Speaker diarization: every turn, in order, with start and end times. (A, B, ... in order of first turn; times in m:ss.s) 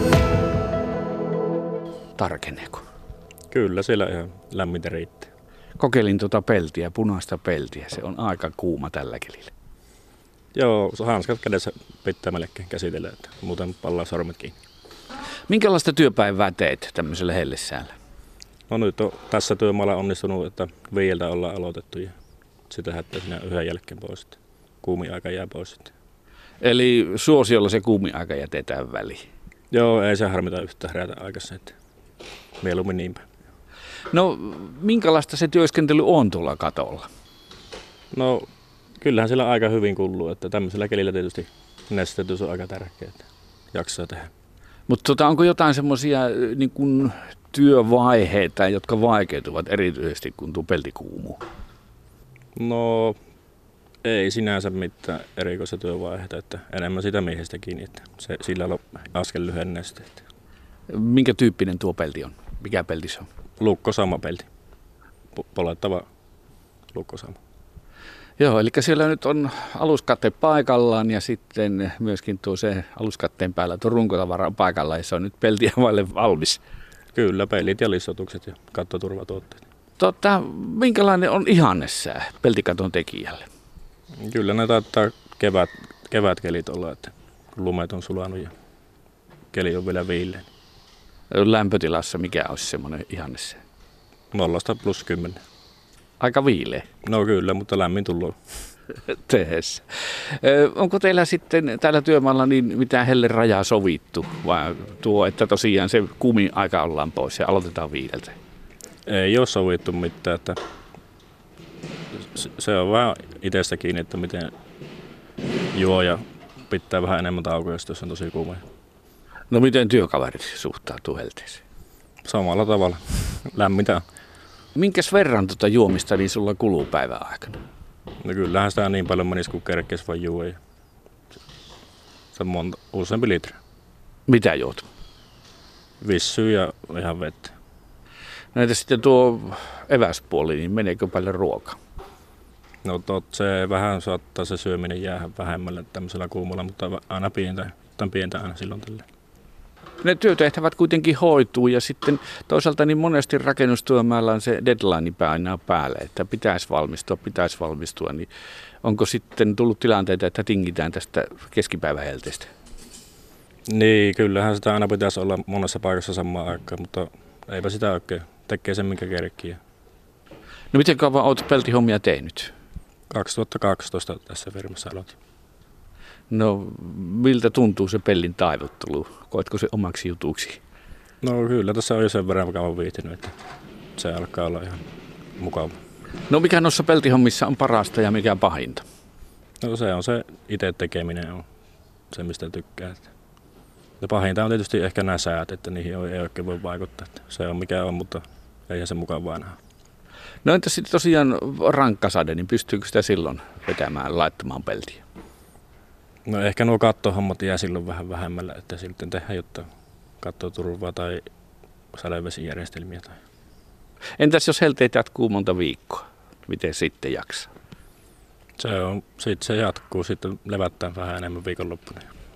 0:02.2-0:02.8 A
0:03.5-0:05.3 B
0:05.8-0:09.5 A
0:10.5-0:14.6 B
0:15.5-0:17.9 A
0:18.7-0:22.1 B
0:22.7-0:25.9 B
0:26.6-0:29.2 A
0:29.7-0:31.7 B
0:32.6-0:33.2 B
0:34.1-0:37.1 A
0:38.1-0:38.4 B
0:39.0-0:44.3 B
0:44.9-0:51.4 A
0:52.6-0:53.2 B
0:54.0-1:00.2 B
1:00.9-1:03.3 A
1:03.6-1:04.5 B
1:05.3-1:06.0 B
1:06.9-1:07.4 B
1:08.4-1:16.6 A
1:17.1-1:19.6 B
1:20.0-1:23.4 A
1:24.2-1:28.5 B
1:29.5-1:30.5 B
1:31.3-1:33.6 A
1:34.3-1:35.4 B
1:36.2-1:36.8 A
1:37.0-1:38.3 B
1:39.1-1:48.3 A
1:49.1-1:50.6 B
1:52.1-1:54.5 B
1:55.7-1:58.6 B
1:59.5-2:01.6 A
2:02.2-2:04.0 B
2:04.7-2:07.6 A
2:08.2-2:10.6 B
2:12.3-2:13.6 B
2:14.3-2:14.8 A
2:16.0-2:17.5 B
2:18.5-2:21.8 A
2:22.8-2:29.0 B
2:30.0-2:38.3 A
2:38.8-2:42.5 A
2:43.7-2:49.6 B
2:50.7-2:52.5 A
2:53.1-2:55.1 B
2:56.3-3:00.6 A
3:01.2-3:03.3 B
3:04.0-3:04.8 B
3:05.4-3:05.7 B
3:06.3-3:08.8 A
3:09.6-3:11.4 B
3:12.1-3:13.1 B
3:14.0-3:19.6 B
3:20.4-3:25.0 A
3:26.2-3:29.6 B
3:30.2-3:31.2 B
3:31.9-3:33.2 B
3:34.2-3:37.5 A
3:38.6-3:42.0 B